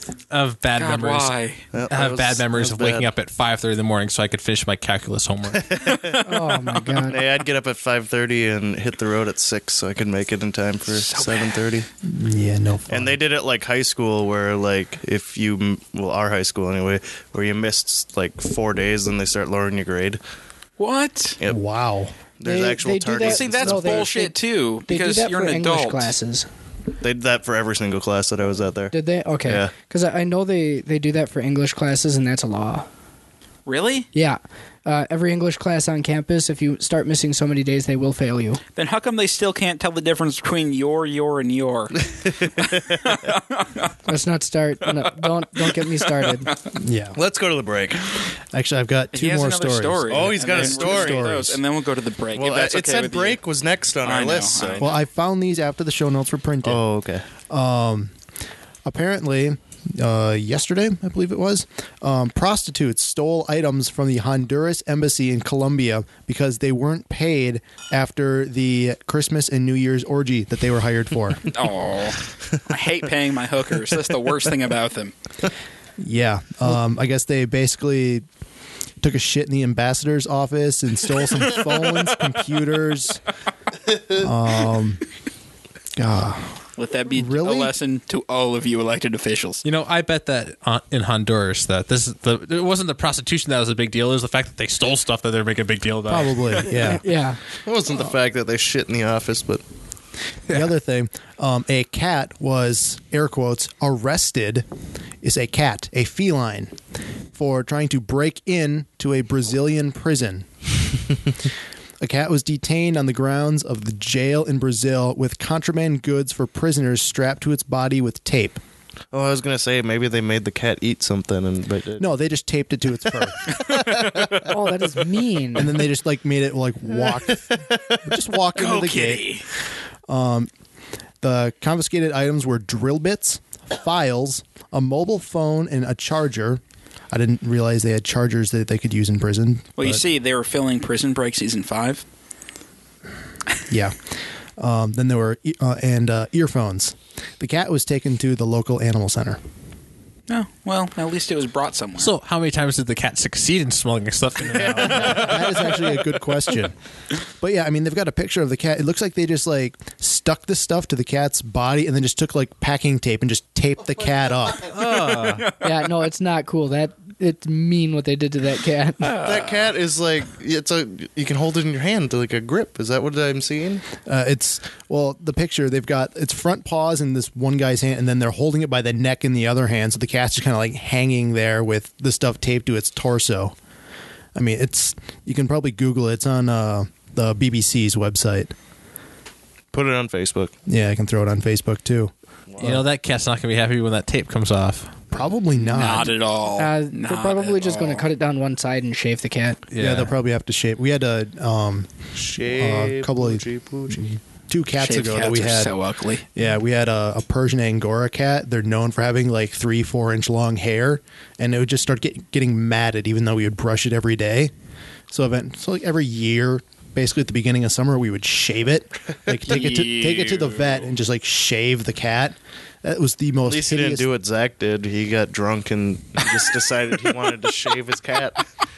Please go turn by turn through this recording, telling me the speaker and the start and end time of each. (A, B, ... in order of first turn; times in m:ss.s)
0:00.3-0:01.3 A
0:00.7-0:01.7 B
0:01.7-0:03.1 C
0:01.9-0:05.7 A
0:05.5-0:06.2 C
0:05.8-0:07.0 B
0:06.2-0:07.2 D
0:06.9-0:11.9 C
0:10.9-0:11.6 B
0:12.0-0:13.2 E
0:12.9-0:20.2 C
0:20.8-0:21.4 B
0:21.5-0:22.1 E
0:22.4-0:24.1 C
0:22.4-0:26.5 D
0:23.2-0:26.1 B
0:27.0-0:29.7 C
0:28.9-0:32.9 D
0:33.6-0:34.1 B
0:34.1-0:38.6 D
0:38.7-0:43.9 B
0:42.1-0:43.0 C
0:44.0-0:46.5 D
0:44.9-0:46.5 B
0:46.8-0:47.2 E
0:47.1-0:48.2 C
0:48.5-0:51.6 E
0:49.1-0:53.4 B
0:50.1-0:51.3 C
0:52.3-0:54.9 C
0:54.0-0:54.9 B
0:54.8-0:56.8 E
0:56.6-0:57.2 C
0:57.5-0:58.1 E
0:58.8-1:11.5 E
1:11.5-1:15.1 B
1:16.0-1:18.2 E
1:19.0-1:23.2 E
1:24.1-1:25.0 E
1:26.0-1:27.7 E
1:26.8-1:29.6 B
1:29.6-1:36.6 A
1:36.1-1:37.0 E
1:36.7-1:37.4 D
1:37.6-1:39.6 C
1:40.5-1:44.6 E
1:45.2-1:46.8 E
1:47.3-1:50.5 E
1:52.0-1:58.6 E
1:59.1-2:02.0 C
2:02.0-2:03.5 E
2:03.5-2:04.5 C
2:03.7-2:04.2 B
2:04.2-2:05.8 D
2:05.5-2:09.2 E
2:07.3-2:08.0 C
2:08.5-2:09.4 B
2:10.1-2:10.5 E
2:11.2-2:20.0 E
2:19.8-2:22.0 B
2:23.7-2:29.4 E
2:30.3-2:32.1 B
2:32.0-2:35.6 A
2:34.7-2:36.7 E
2:37.4-2:44.9 E
2:44.7-2:45.5 A
2:45.4-2:45.7 B
2:45.5-2:49.2 D
2:49.0-2:49.7 B
2:49.2-2:53.8 C
2:54.0-3:03.5 E
3:04.3-3:08.5 E
3:09.7-3:10.5 C
3:10.7-3:12.8 E
3:12.6-3:15.0 A
3:15.1-3:16.1 E
3:15.6-3:18.0 B
3:16.5-3:19.7 D
3:19.7-3:20.1 A
3:19.8-3:25.7 E
3:22.1-3:24.0 C
3:24.8-3:26.2 B
3:26.3-3:34.5 E
3:35.1-3:44.0 E
3:39.4-3:40.8 B
3:43.4-3:48.4 C